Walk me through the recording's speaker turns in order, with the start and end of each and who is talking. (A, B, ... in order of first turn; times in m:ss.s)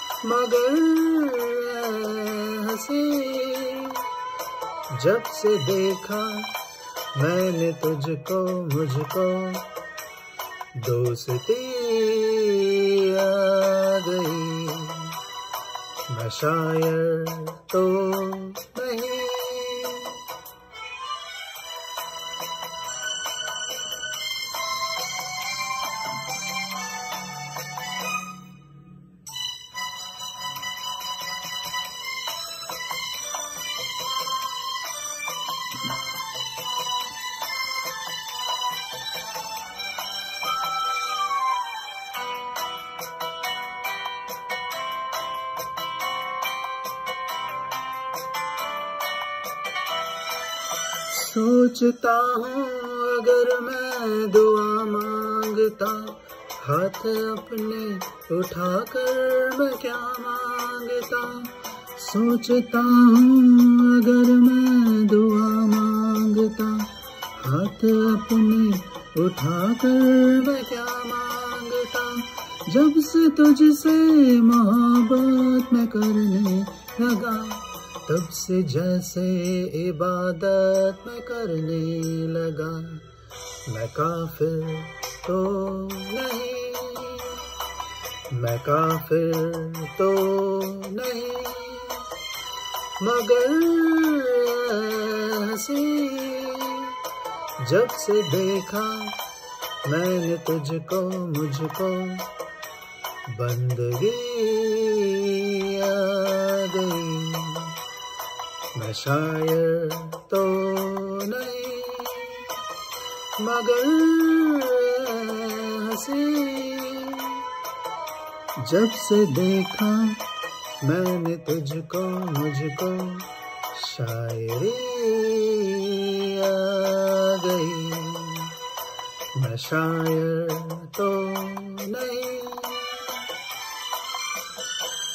0:00.2-0:04.0 A
0:04.9-0:06.5 A
0:07.1-0:09.7 A
0:10.7-0:15.2 A
0:16.1-0:20.2 A
0:51.1-1:23.0 A
1:23.6-1:27.4 A
1:28.3-1:32.0 A
1:33.0-1:37.0 A
1:37.6-1:39.2 A
1:39.8-1:42.3 A
1:43.3-1:47.8 A
1:48.7-1:52.5 A
1:53.4-1:57.4 A
1:58.6-2:00.2 A
2:00.8-2:08.5 A
2:09.3-2:13.1 A